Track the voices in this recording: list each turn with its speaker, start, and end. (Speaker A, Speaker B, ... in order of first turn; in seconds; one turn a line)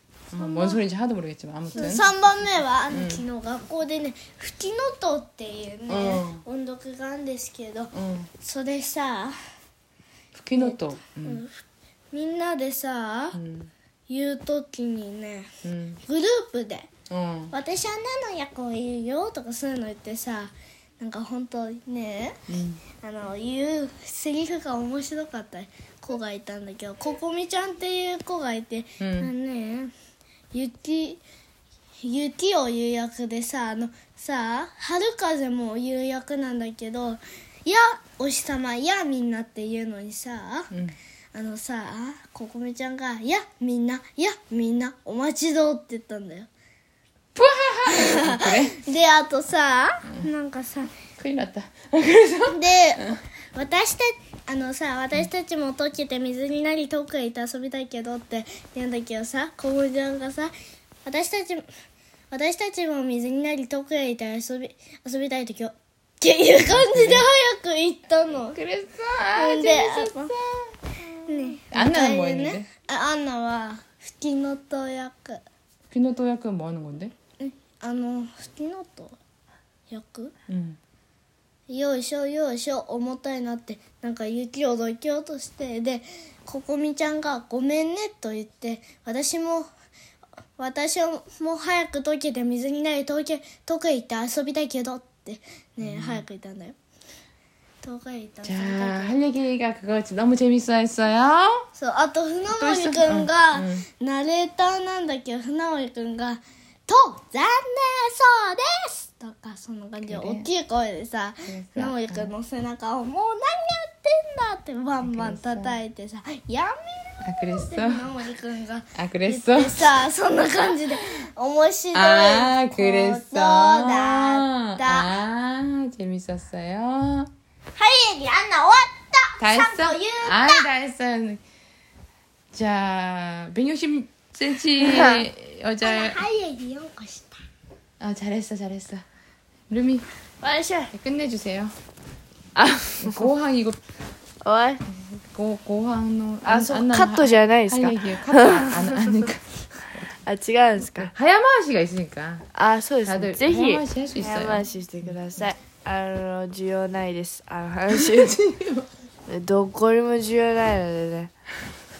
Speaker A: 0.3-2.1
Speaker B: 0.3-0.8
Speaker B: 1.7-9.4
Speaker A: 2.9-3.2
Speaker A: 5.9-6.4
Speaker A: 7.9-8.3
Speaker A: 10.3-11.4
Speaker B: 10.6-13.4
Speaker A: 13.3-13.7
Speaker B: 14.1-15.5
Speaker A: 15.6-16.0
Speaker B: 16.1-16.9
Speaker A: 17.1-17.5
Speaker B: 17.5-22.4
Speaker A: 22.5-22.8
Speaker B: 23.0-29.9
Speaker A: 29.0-29.3
Speaker B: 30.5-31.2
Speaker B: 32.0-40.7
Speaker A: 40.7-41.0
Speaker B: 41.3-46.5
Speaker A: 47.3-48.8
Speaker B: 47.9-50.9
Speaker A: 51.2-53.2
Speaker B: 52.5-60.5
Speaker B: 61.0-61.7
Speaker B: 62.3-68.6
Speaker A: 66.6-67.2
Speaker A: 68.5-70.6
Speaker B: 69.3-70.3
Speaker B: 71.2-75.4
Speaker A: 71.7-72.7
Speaker A: 75.9-77.1
Speaker B: 77.4-79.2
Speaker B: 79.9-80.3
Speaker A: 80.5-80.8
Speaker B: 81.7-89.7
Speaker B: 90.6-96.8
Speaker A: 95.8-96.2
Speaker B: 97.8-99.2
Speaker A: 98.4-101.7
Speaker B: 101.7-125.1
Speaker A: 102.5-103.8
Speaker A: 110.0-110.5
Speaker A: 111.5-112.3
Speaker A: 115.0-115.8
Speaker A: 117.2-118.1
Speaker A: 119.0-119.8
Speaker A: 121.9-127.3
Speaker B: 127.7-130.7
Speaker A: 129.4-131.4
Speaker A: 132.5-136.2
Speaker C: 134.8-135.2
Speaker B: 135.8-137.4
Speaker A: 138.0-139.0
Speaker A: 139.7-140.1
Speaker C: 140.4-140.9
Speaker A: 140.9-141.7
Speaker C: 142.6-143.2
Speaker A: 143.0-143.8
Speaker C: 144.4-144.8
Speaker A: 145.1-150.1
Speaker C: 146.4-149.3
Speaker C: 150.2-151.1
Speaker A: 151.0-152.5
Speaker C: 152.5-158.4
Speaker A: 153.0-155.1
Speaker A: 157.9-158.9
Speaker C: 159.3-161.3